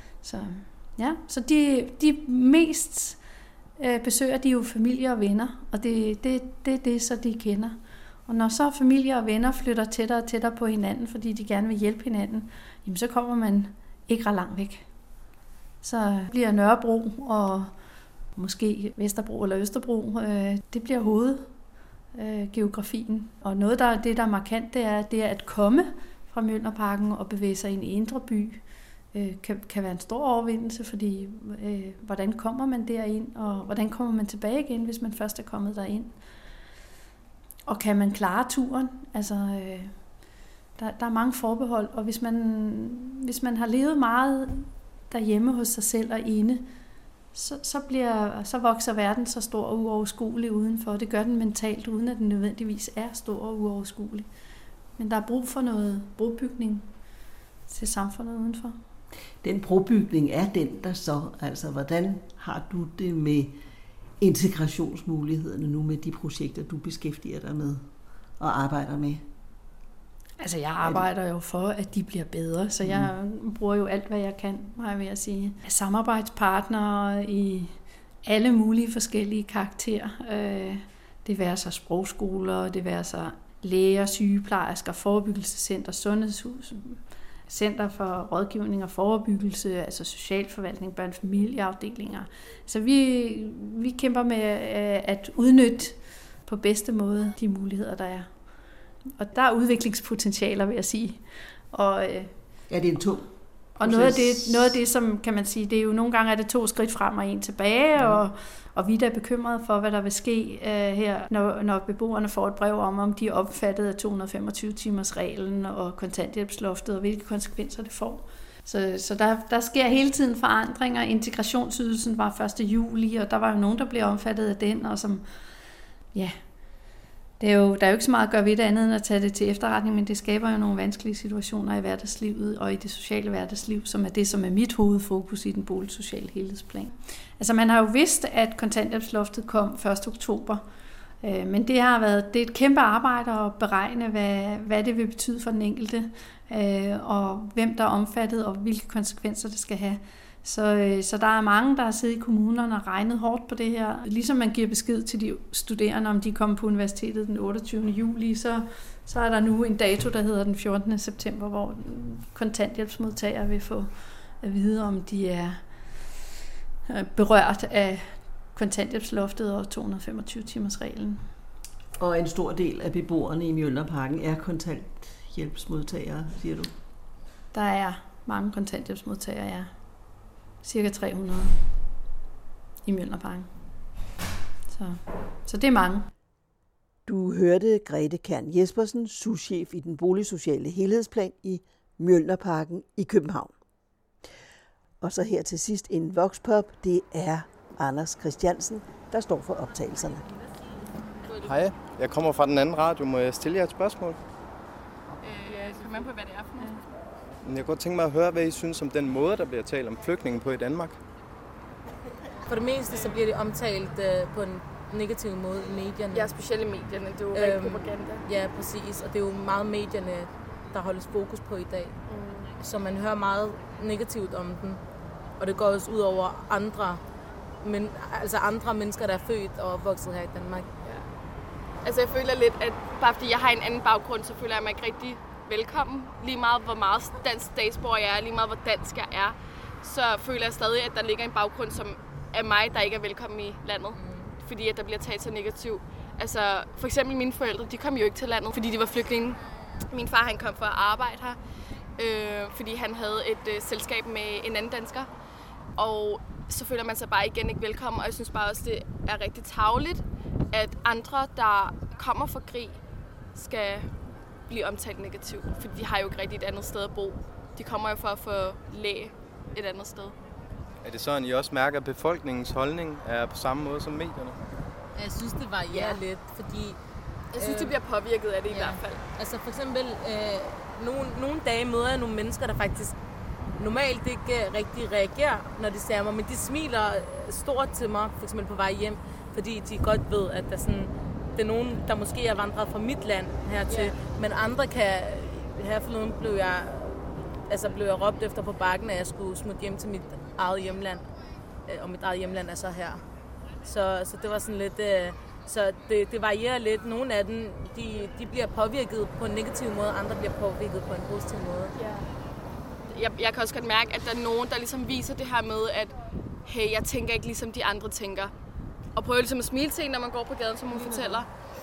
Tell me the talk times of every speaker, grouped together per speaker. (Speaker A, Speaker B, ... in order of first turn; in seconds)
Speaker A: 0.2-3.2, 3.8-7.8, 8.3-14.8, 15.8-17.7, 18.4-21.5, 22.1-28.6, 29.1-36.1, 37.7-39.9, 40.8-46.7, 47.3-54.3, 55.0-56.9, 57.7-58.8, 70.4-98.3, 99.2-102.3, 103.8-125.2, 127.4-140.6, 141.2-165.6, 166.9-171.2, 177.5-179.7, 180.6-181.5, 182.8-183.5, 184.7-186.1
Speaker B: 59.4-63.6, 64.2-67.8, 68.4-69.2, 102.7-104.8, 172.0-176.7, 187.1-193.5, 195.0-200.3
Speaker C: 201.2-201.5, 205.2-206.8, 216.1-218.2, 222.1-222.5, 231.8-251.4, 252.0-255.1, 255.8-262.8, 263.3-263.9, 264.5-270.1, 275.7-276.0, 277.3-279.0, 311.8-312.1, 312.9-315.9, 316.4-318.3, 318.9-321.3
Speaker D: 201.4-204.2, 207.4-211.0, 270.8-274.4
Speaker E: 212.4-216.3, 217.3-221.9, 222.6-224.8, 225.4-227.0, 227.6-230.7, 244.0-244.3, 274.9-276.8, 277.4-277.8, 278.5-282.9, 283.6-301.0, 301.6-303.0, 303.6-311.7, 320.7-321.2